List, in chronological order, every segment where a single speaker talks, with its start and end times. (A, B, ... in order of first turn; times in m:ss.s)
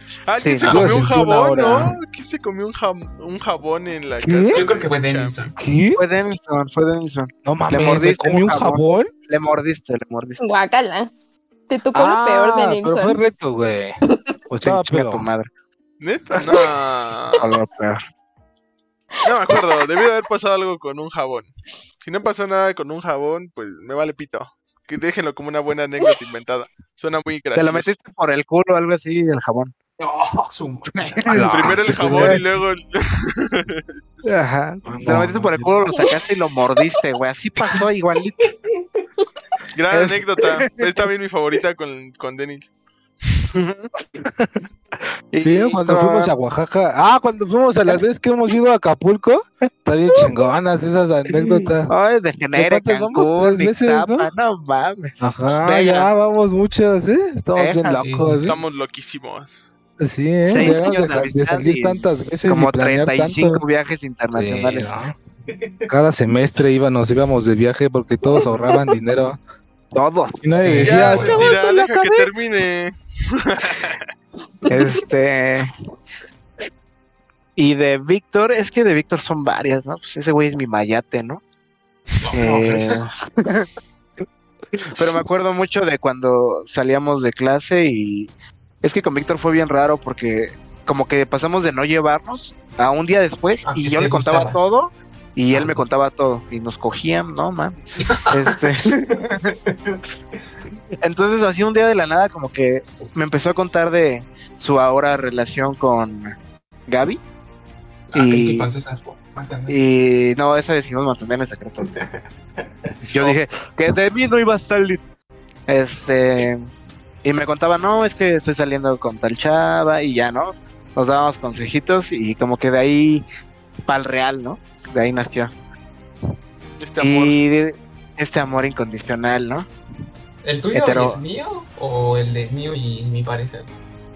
0:00.3-0:05.5 A
0:00.4-0:00.7 B
0:00.6-0:01.9 C
0:00.7-0:02.0 D
0:04.2-0:04.7 D
0:04.5-0:05.6 C
0:05.6-0:06.0 D
0:06.0-0:10.5 B
0:07.4-0:09.1 D
0:10.4-0:11.1 E
0:11.7-0:13.2 E
0:11.9-0:15.3 D
0:14.6-0:15.5 B
0:16.0-0:17.5 A
0:17.4-0:18.0 B
0:19.2-0:21.5 A
0:22.0-0:27.9 A
0:27.6-0:29.8 B
0:30.0-0:31.5 C
0:31.0-0:32.4 B
0:31.3-0:32.4 D
0:31.5-0:33.8 A
0:34.2-0:38.5 B
0:34.9-0:35.9 D
0:38.4-0:39.0 C
0:39.8-0:42.7 A
0:39.9-0:41.1 B
0:43.5-0:43.9 B
0:44.1-0:51.9 D
0:45.4-0:46.3 B
0:51.3-0:56.1 B
0:52.5-0:54.3 D
0:55.2-0:58.6 D
0:57.6-0:58.0 B
0:57.9-0:58.6 C
0:58.4-0:59.6 A
1:00.0-1:03.6 D
1:00.5-1:04.9 B
1:04.4-1:05.2 D
1:05.5-1:05.9 C
1:05.9-1:09.4 D
1:09.9-1:10.4 B
1:10.4-1:12.3 D
1:10.6-1:11.4 C
1:10.7-1:14.1 A
1:14.7-1:15.7 B
1:17.6-1:21.4 B
1:22.2-1:23.0 C
1:22.4-1:23.7 B
1:24.8-1:28.3 B
1:24.8-1:25.2 D
1:28.8-1:37.8 B
1:33.7-1:34.6 C
1:35.5-1:35.8 C
1:38.0-1:40.4 C
1:38.3-1:39.6 B
1:41.0-1:46.4 B
1:46.9-1:47.2 B
1:48.1-1:49.8 C
1:48.1-1:48.7 B
1:49.7-1:52.0 B
1:52.0-1:53.4 C
1:53.1-1:55.0 B
1:55.7-1:56.6 B
1:57.2-2:03.2 B
2:03.9-2:05.5 B
2:06.8-2:07.4 A
2:07.0-2:09.7 B
2:10.4-2:13.7 C
2:10.7-2:11.2 B